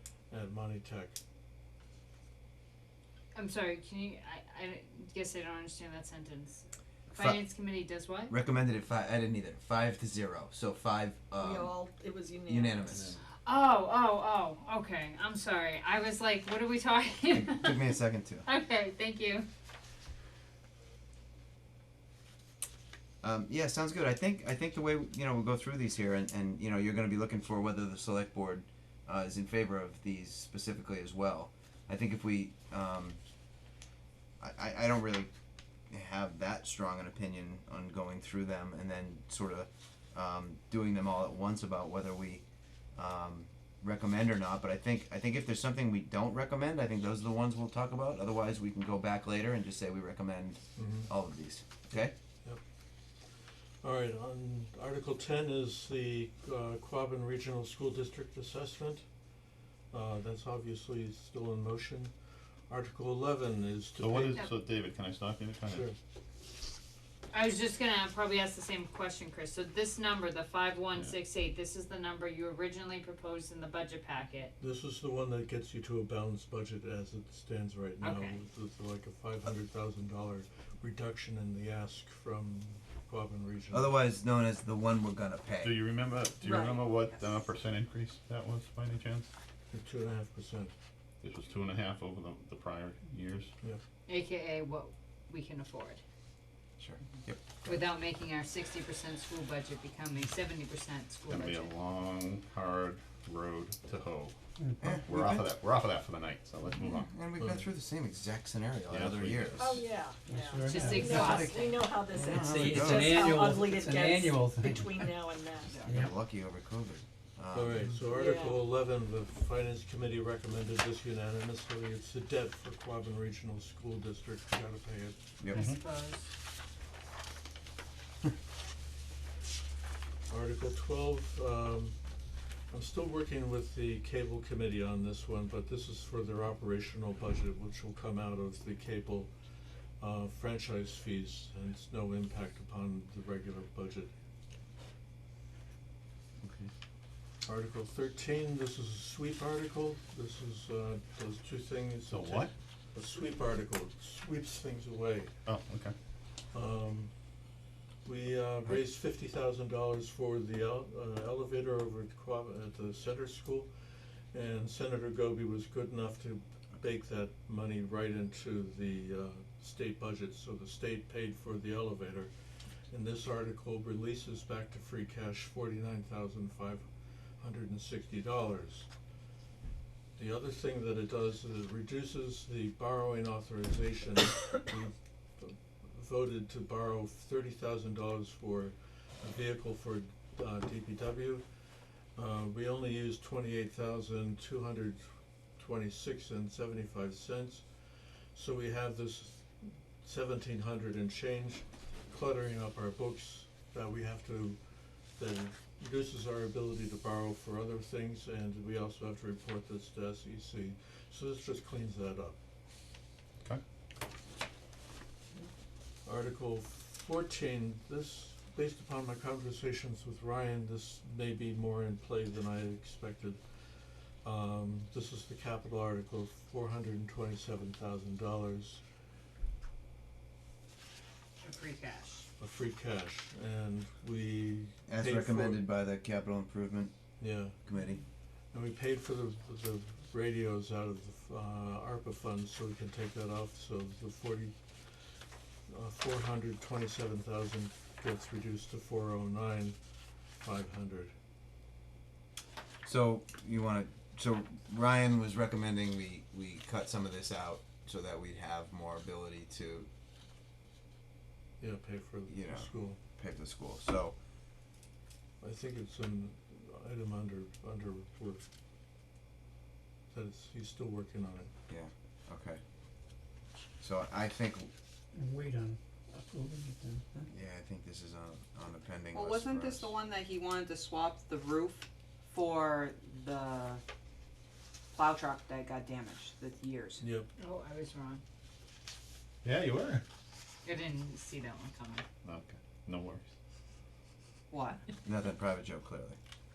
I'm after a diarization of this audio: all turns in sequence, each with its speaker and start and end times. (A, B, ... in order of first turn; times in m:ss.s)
0:00.3-0:01.2 A
0:03.3-0:08.3 B
0:07.1-0:07.4 C
0:08.3-0:11.7 C
0:11.4-0:13.0 D
0:12.4-0:13.1 C
0:13.4-0:17.9 B
0:17.3-0:18.4 C
0:18.4-0:19.4 B
0:23.2-0:33.2 C
0:34.4-0:35.3 C
0:35.9-0:42.4 C
0:43.0-0:52.1 C
0:50.8-0:51.1 A
0:52.0-0:52.6 A
0:53.8-0:59.0 A
0:59.9-1:02.1 A
1:02.7-1:04.4 A
1:04.0-1:05.9 E
1:05.7-1:06.0 A
1:07.3-1:14.5 B
1:14.6-1:24.0 A
1:18.0-1:18.4 B
1:23.7-1:25.7 C
1:25.6-1:29.3 E
1:26.4-1:27.3 F
1:29.7-1:30.7 A
1:31.2-1:33.5 E
1:34.1-1:36.0 B
1:36.8-1:37.8 C
1:37.6-1:41.7 B
1:41.3-1:47.1 E
1:44.8-1:45.4 C
1:46.8-1:49.8 C
1:47.4-1:47.7 A
1:48.9-1:49.8 E
1:49.6-1:55.8 D
1:50.2-1:51.4 G
1:50.7-1:51.8 B
1:51.1-1:51.6 C
1:52.1-1:53.2 C
1:52.4-1:55.0 G
1:55.7-1:56.0 F
1:55.8-1:57.9 C
1:55.9-1:56.1 G
1:57.5-2:05.2 A
1:58.1-1:58.6 D
2:05.4-2:05.7 C
2:05.5-2:06.3 B
2:05.5-2:05.8 E
2:10.3-2:12.0 A
2:12.7-2:19.3 A
2:20.0-2:24.1 A
2:26.4-2:26.7 E
2:27.4-2:35.3 A
2:32.1-2:32.5 E
2:35.4-2:35.9 E
2:36.5-2:37.1 A
2:38.0-2:52.3 A
2:52.9-2:56.9 A
2:57.4-2:58.9 A
3:00.2-3:11.4 A
3:12.1-3:24.6 A
3:25.1-3:32.4 A
3:36.0-3:43.7 A
3:44.2-3:48.8 A
3:51.4-3:52.3 B
3:52.4-3:55.6 A
3:54.9-3:56.9 C
3:57.2-3:57.6 A
3:57.6-3:58.0 C
3:58.5-4:05.1 A
4:05.7-4:09.8 A
4:10.4-4:11.1 A
4:12.8-4:19.9 C
4:21.6-4:23.0 A
4:22.3-4:24.1 C
4:25.4-4:28.4 A
4:30.1-4:31.5 A
4:31.7-4:32.6 C
4:33.8-4:34.7 C
4:35.1-4:37.3 G
4:37.3-4:40.0 C
4:39.1-4:43.8 F
4:44.9-4:47.0 F
4:47.0-4:47.3 A
4:47.4-4:48.2 B
4:49.4-4:50.0 E
4:50.6-4:52.0 B
4:52.2-4:53.3 E
4:54.5-4:54.8 F
4:55.0-4:56.2 C